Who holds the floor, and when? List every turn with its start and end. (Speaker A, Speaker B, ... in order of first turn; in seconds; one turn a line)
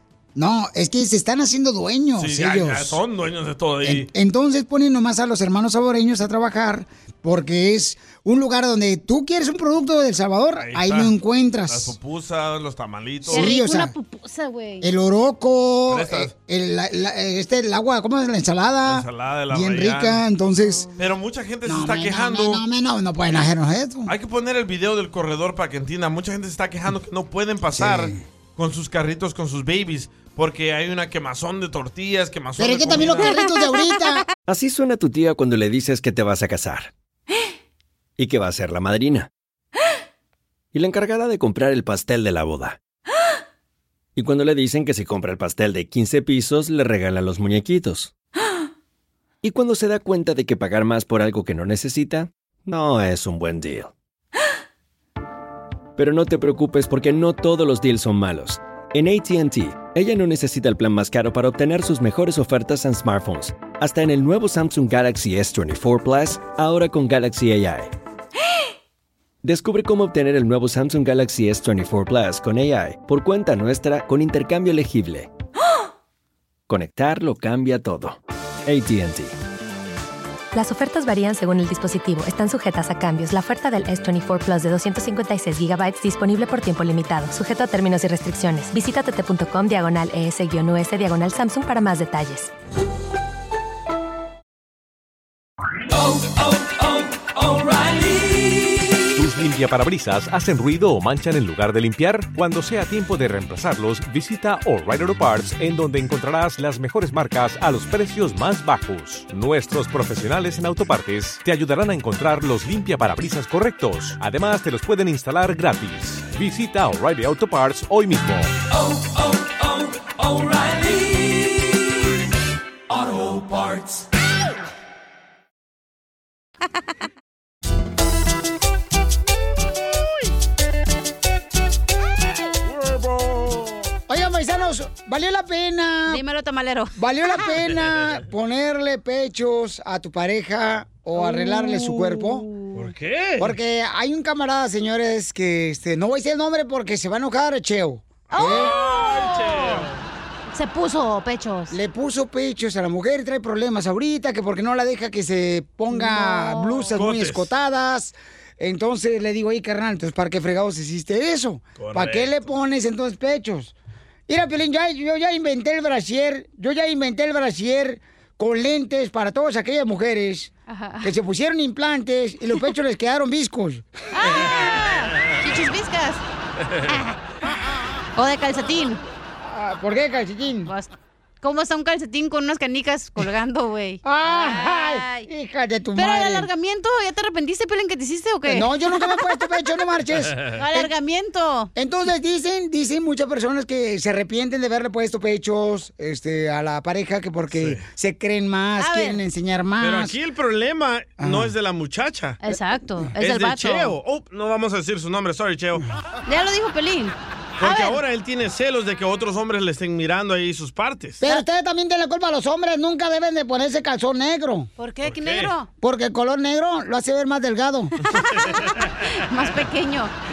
Speaker A: 0.3-3.0
Speaker B: 2.2-4.1
Speaker A: 3.8-11.9
Speaker B: 10.6-11.1
Speaker B: 11.7-13.6
Speaker A: 13.2-13.9
Speaker C: 13.3-14.8
Speaker A: 14.8-20.9
Speaker B: 15.9-16.3
Speaker B: 18.8-20.2
Speaker B: 20.9-22.6
Speaker A: 21.6-24.1
Speaker B: 24.1-33.4
Speaker A: 27.7-28.2
Speaker A: 32.6-34.2
Speaker D: 34.5-36.9
Speaker D: 38.2-39.3
Speaker D: 40.7-42.8
Speaker D: 44.1-48.1
Speaker D: 49.4-53.9
Speaker D: 56.0-67.9
Speaker D: 69.4-75.3
Speaker D: 76.7-79.3
Speaker E: 80.5-92.5
Speaker F: 99.1-118.5
Speaker B: 132.6-133.9
Speaker A: 134.1-136.2
Speaker C: 136.1-136.9
Speaker A: 137.0-142.5
Speaker B: 137.7-138.2
Speaker B: 142.7-143.6
Speaker A: 143.4-148.8
Speaker C: 148.3-149.8
Speaker B: 148.4-150.0
Speaker C: 150.5-151.8
Speaker A: 151.7-163.7
Speaker C: 155.9-156.9
Speaker B: 156.9-157.5
Speaker B: 161.8-162.5
Speaker A: 164.3-170.5
Speaker C: 170.7-171.1
Speaker A: 171.0-173.8
Speaker C: 174.1-176.2
Speaker C: 176.9-177.1
Speaker C: 178.2-179.0
Speaker A: 179.4-180.7
Speaker C: 181.4-185.3
Speaker A: 184.0-186.5
Speaker C: 185.9-189.2
Speaker A: 188.4-190.9
Speaker C: 190.6-191.7
Speaker A: 191.7-200.1
Speaker B: 197.5-197.8
Speaker C: 198.8-199.2
Speaker B: 199.8-202.4
Speaker A: 201.2-201.5
Speaker C: 202.4-203.9
Speaker B: 203.2-205.8
Speaker C: 206.2-208.0
Speaker B: 207.6-211.2
Speaker A: 211.2-214.7
Speaker C: 214.8-215.7
Speaker B: 215.0-215.5
Speaker A: 215.8-217.9
Speaker C: 218.0-220.1
Speaker B: 218.1-218.8